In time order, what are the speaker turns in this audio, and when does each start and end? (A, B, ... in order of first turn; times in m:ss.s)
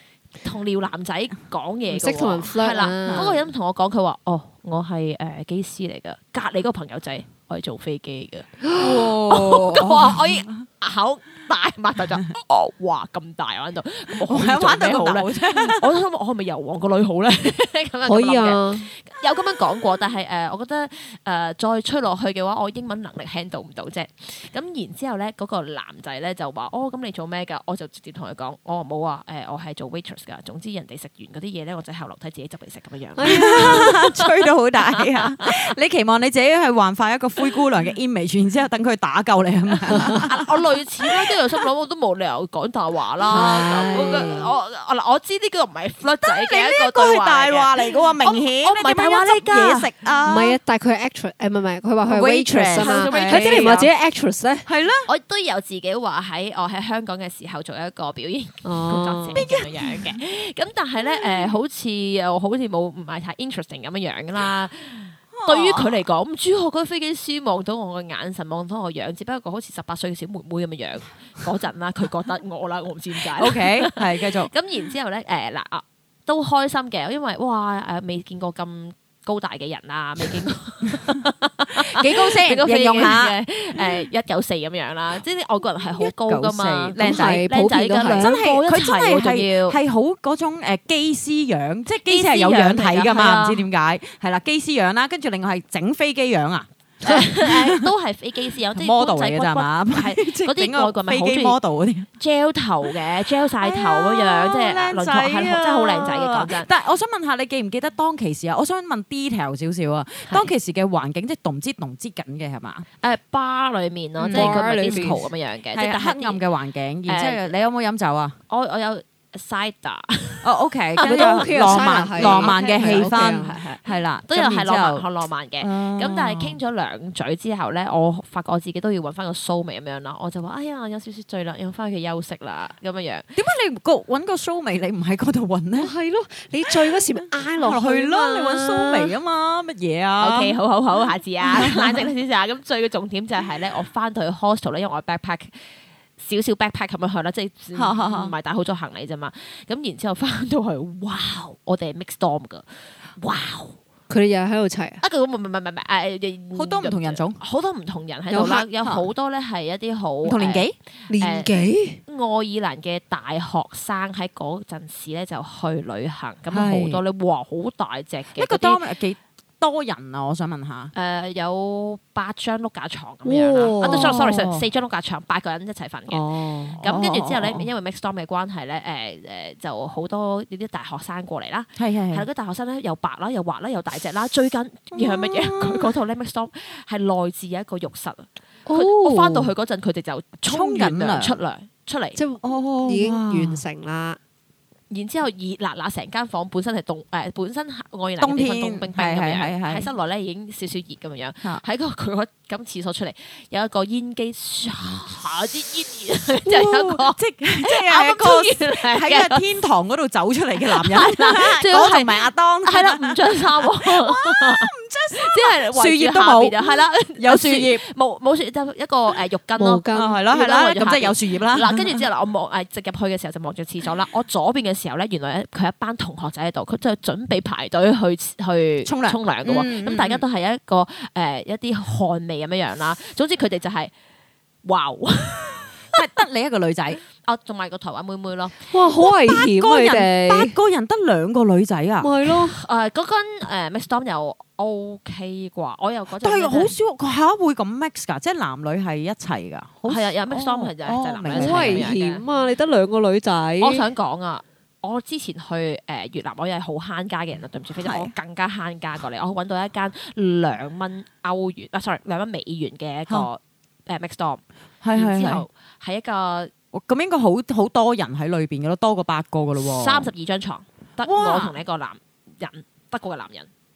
0:00.4-0:34.3 A
0:01.9-0:03.4 B
0:08.6-0:09.0 B
0:08.8-0:10.6 C
0:14.3-0:15.9 C
0:18.0-0:18.9 B
0:33.2-0:33.9 B
0:33.2-0:40.4 C
0:34.9-0:35.5 A
0:39.9-0:49.9 A
0:43.3-0:44.1 C
0:43.3-0:44.5 B
0:46.2-0:50.6 C
0:50.3-0:54.6 B
0:52.0-0:53.9 C
0:52.8-0:53.8 A
0:54.6-0:55.1 C
0:55.0-1:29.8 A
0:58.6-0:59.4 B
0:59.3-1:00.2 C
1:05.3-1:06.0 C
1:13.3-1:14.5 C
1:21.8-1:23.9 C
1:25.9-1:27.4 C
1:27.0-1:28.4 B
1:28.1-1:37.9 C
1:32.0-1:33.6 A
1:37.0-1:41.6 A
1:38.7-1:42.1 C
1:42.2-1:46.7 A
1:43.4-1:52.9 C
1:53.0-1:56.4 A
1:54.2-1:58.4 C
1:54.3-1:55.2 B
1:57.0-1:57.5 A
1:58.5-2:13.3 A
2:00.4-2:05.0 C
2:01.0-2:03.6 B
2:05.6-2:06.6 C
2:13.3-2:15.9 C
2:15.8-2:19.2 B
2:16.7-2:17.0 C
2:17.6-2:20.6 C
2:20.2-2:32.6 A
2:21.6-2:22.0 C
2:27.7-2:28.3 C
2:33.2-2:33.8 A
2:34.1-2:35.0 B
2:35.0-2:41.5 A
2:36.5-2:37.4 C
2:38.3-2:38.6 B
2:38.4-2:39.0 C
2:40.2-2:40.7 C
2:41.1-2:42.0 B
2:42.0-2:48.8 A
2:46.5-2:47.0 C
2:48.4-2:50.9 C
2:50.9-3:12.2 A
2:53.2-2:54.2 B
2:53.8-2:54.6 C
2:56.1-2:56.8 B
2:56.8-2:57.6 C
3:01.8-3:02.2 C
3:04.9-3:05.9 C
3:08.7-3:09.5 B
3:10.5-3:11.4 C
3:12.2-3:14.2 B
3:12.4-3:13.6 C
3:14.9-3:29.4 A
3:18.2-3:19.9 C
3:26.4-3:37.8 C
3:30.6-3:53.9 A
3:39.6-3:40.2 B
3:39.9-3:42.0 C
3:48.8-3:50.2 C
3:54.6-3:55.7 A
3:55.9-3:57.0 C
3:57.2-3:58.7 A
3:58.7-4:00.6 B
3:59.0-4:02.1 C
4:02.0-4:02.6 B
4:02.5-4:06.8 A
4:06.2-4:11.9 C
4:09.9-4:12.2 A
4:11.3-4:13.8 B
4:13.6-4:24.4 A
4:17.8-4:18.1 C
4:24.8-4:25.4 C
4:24.9-4:26.5 A
4:26.7-4:30.1 C
4:29.6-4:33.5 A
4:31.0-4:31.6 C